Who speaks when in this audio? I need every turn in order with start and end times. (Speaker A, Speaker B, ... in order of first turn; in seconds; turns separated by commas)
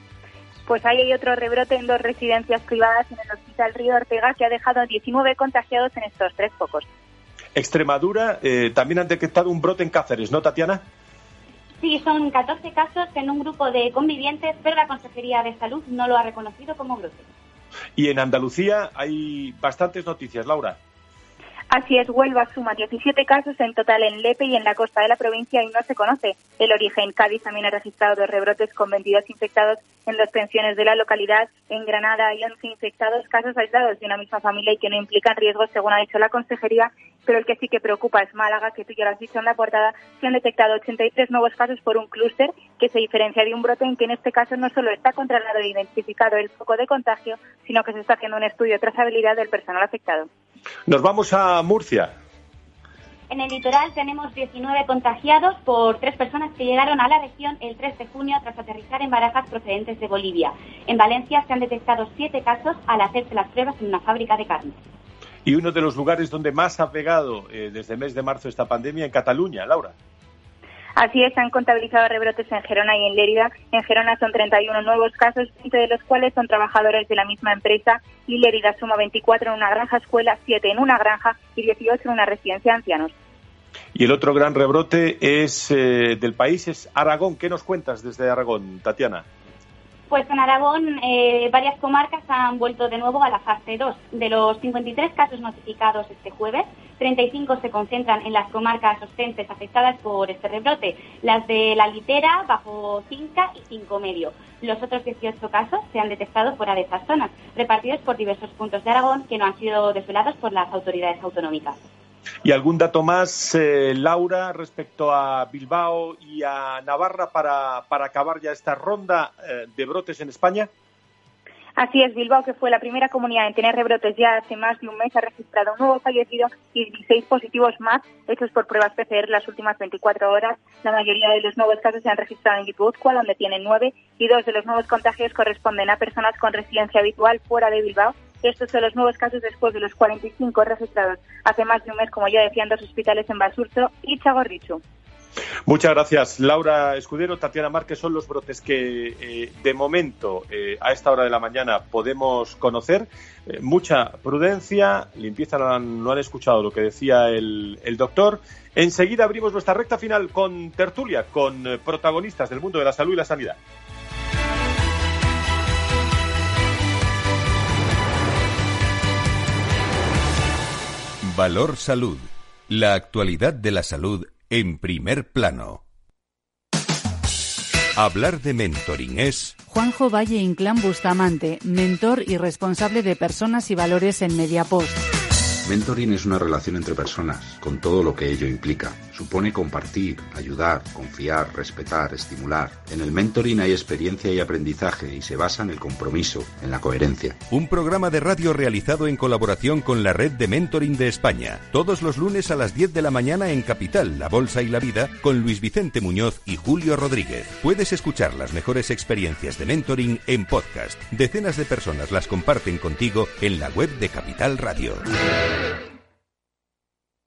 Speaker A: 0.7-6.9, Speaker B: 7.5-10.8, Speaker C: 11.8-17.3, Speaker B: 18.0-20.8, Speaker A: 21.7-50.3, Speaker B: 50.9-52.1, Speaker C: 53.3-64.8, Speaker B: 65.5-70.0, Speaker A: 71.0-83.1, Speaker B: 84.0-89.2, Speaker C: 90.1-111.8, Speaker B: 112.4-120.7, Speaker A: 121.8-144.8, Speaker B: 145.7-163.6, Speaker D: 171.2-175.8, Speaker D: 178.0-179.6, Speaker E: 179.7-185.1, Speaker F: 185.6-197.4, Speaker D: 197.5-215.1